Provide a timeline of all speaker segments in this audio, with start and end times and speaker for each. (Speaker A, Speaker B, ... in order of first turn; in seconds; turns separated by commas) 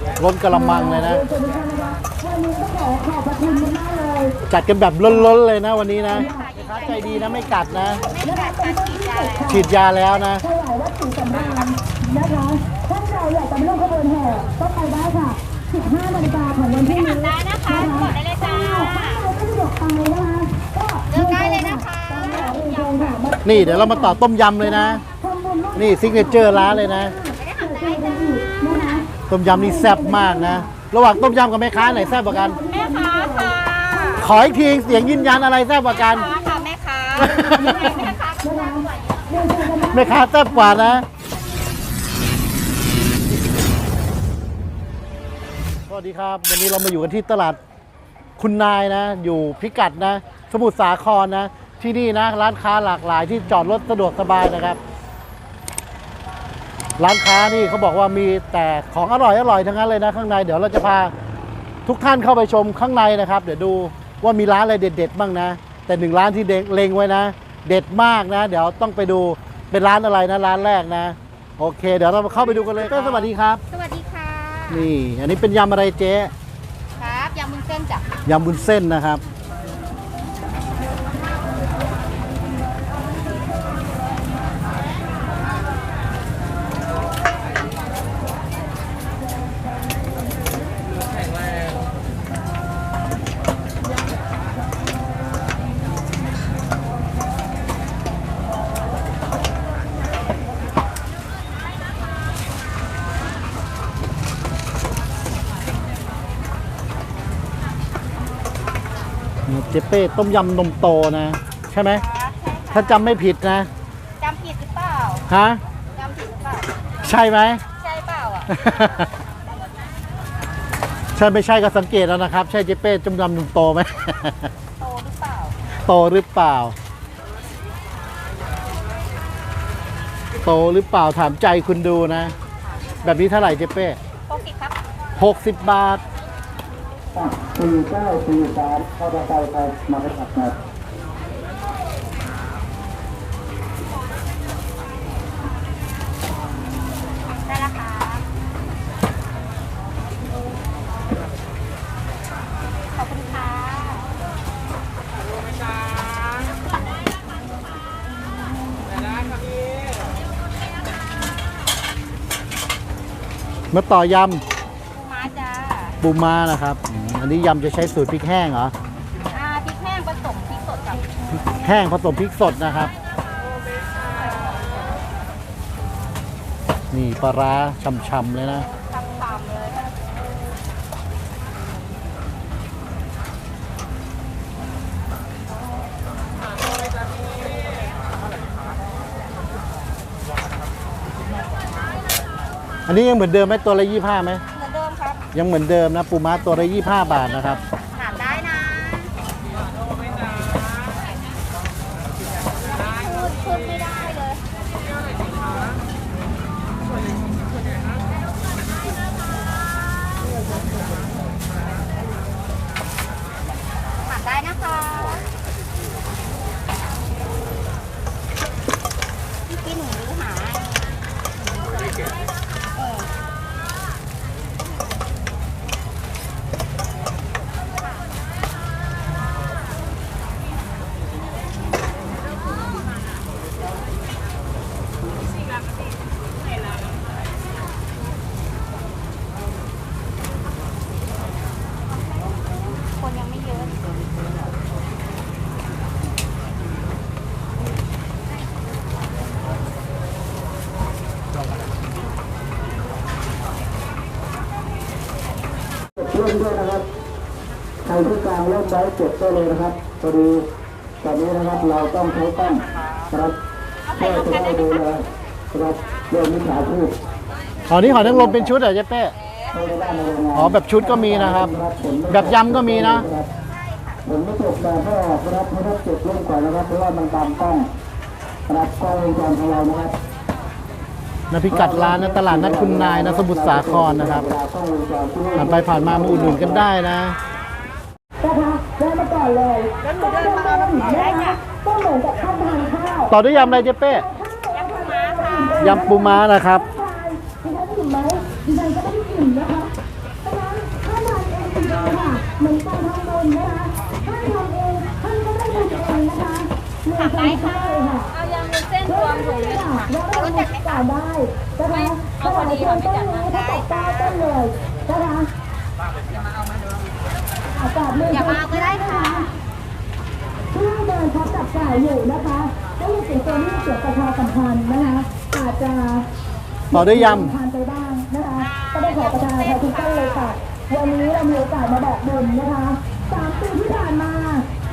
Speaker A: 0.2-1.2, Speaker B: 0.5-4.4, Speaker A: 4.5-8.0, Speaker C: 6.1-9.6, Speaker B: 6.1-7.6, Speaker B: 8.2-9.7, Speaker A: 9.5-10.4, Speaker B: 10.4-41.0, Speaker C: 16.8-19.2, Speaker C: 21.1-23.2, Speaker A: 23.4-25.0, Speaker A: 25.8-27.1, Speaker C: 27.4-29.0, Speaker A: 29.3-32.6, Speaker C: 32.7-34.3, Speaker A: 34.2-36.3, Speaker C: 35.9-39.5, Speaker A: 37.2-37.8, Speaker A: 39.9-41.0, Speaker A: 45.9-47.6, Speaker A: 48.4-54.8, Speaker A: 57.0-61.1, Speaker A: 61.9-73.6, Speaker C: 73.0-74.9, Speaker A: 74.7-76.3, Speaker C: 77.0-78.1, Speaker A: 78.2-79.2, Speaker A: 109.5-112.0, Speaker C: 111.9-113.1, Speaker A: 112.7-113.7, Speaker C: 114.2-115.2, Speaker A: 115.3-115.6, Speaker C: 116.0-116.7, Speaker A: 117.0-117.6, Speaker C: 117.8-118.6, Speaker A: 118.5-119.1, Speaker A: 121.2-124.5, Speaker C: 124.8-125.5, Speaker A: 125.8-126.8, Speaker A: 130.4-132.3, Speaker A: 133.0-134.0, Speaker C: 134.3-134.8, Speaker A: 135.2-136.0, Speaker D: 137.2-140.6, Speaker C: 147.4-148.2, Speaker C: 152.9-154.1, Speaker A: 163.7-164.4, Speaker C: 164.9-166.0, Speaker A: 166.0-168.7, Speaker C: 169.3-171.0, Speaker A: 171.6-172.9, Speaker A: 176.9-178.7, Speaker C: 178.7-179.9, Speaker A: 192.9-194.4, Speaker C: 194.5-195.2, Speaker A: 195.3-197.6, Speaker C: 197.9-199.1, Speaker C: 202.7-204.4, Speaker C: 214.0-215.2, Speaker C: 219.5-221.0, Speaker C: 222.8-223.1, Speaker C: 242.8-243.9, Speaker D: 256.0-256.8, Speaker D: 257.8-260.4, Speaker D: 261.0-263.4, Speaker C: 263.9-264.8, Speaker D: 263.9-266.9, Speaker A: 267.7-269.1, Speaker D: 267.8-268.5, Speaker C: 269.2-270.1, Speaker D: 269.5-273.3, Speaker A: 270.3-271.5, Speaker A: 272.1-273.1, Speaker C: 273.6-274.0, Speaker D: 274.1-277.7, Speaker D: 278.5-279.9, Speaker A: 281.3-284.3, Speaker D: 281.5-286.7, Speaker A: 285.4-287.2, Speaker B: 288.2-299.7, Speaker C: 289.8-291.4, Speaker A: 293.1-294.0, Speaker C: 294.5-295.8, Speaker A: 295.6-296.6, Speaker B: 300.2-308.1, Speaker C: 307.0-310.8, Speaker B: 308.8-315.3, Speaker C: 311.7-313.8, Speaker B: 317.5-319.3, Speaker C: 318.1-319.3, Speaker B: 320.5-326.1, Speaker B: 326.7-334.5, Speaker A: 326.7-327.3, Speaker C: 328.8-330.3